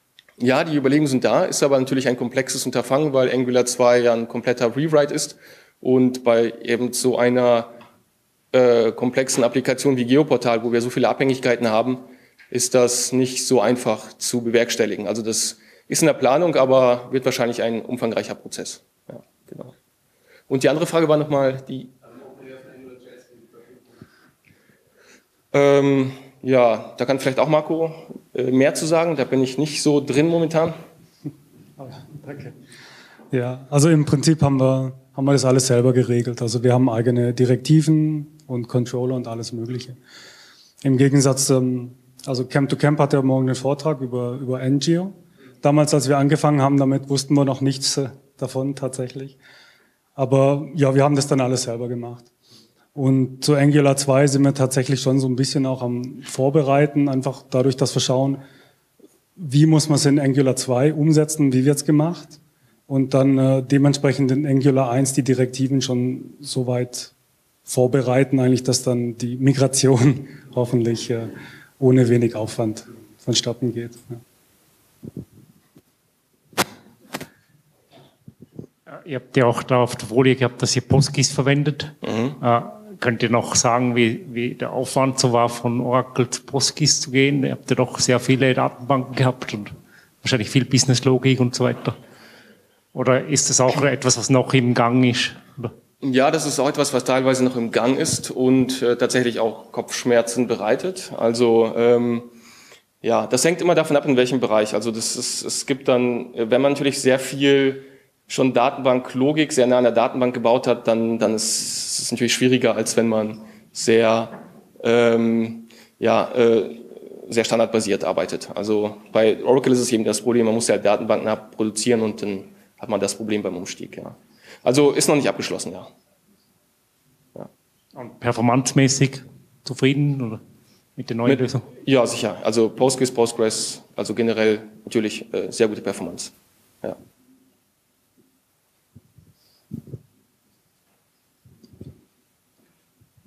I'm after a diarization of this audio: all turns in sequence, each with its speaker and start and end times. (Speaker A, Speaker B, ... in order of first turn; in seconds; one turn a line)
Speaker A: 0.4-7.7
Speaker A: 8.5-19.7
Speaker A: 20.5-21.9
Speaker A: 25.5-30.8
Speaker B: 31.8-32.5
Speaker B: 33.3-40.0
Speaker B: 40.8-49.4
Speaker B: 50.1-52.3
Speaker B: 53.0-58.4
Speaker B: 59.4-67.1
Speaker B: 67.7-74.2
Speaker C: 78.9-92.0
Speaker C: 92.9-95.7
Speaker A: 96.0-102.3
Speaker A: 103.0-125.9
Speaker C: 128.0-130.4
Speaker C: 131.0-131.7
Speaker A: 131.2-137.0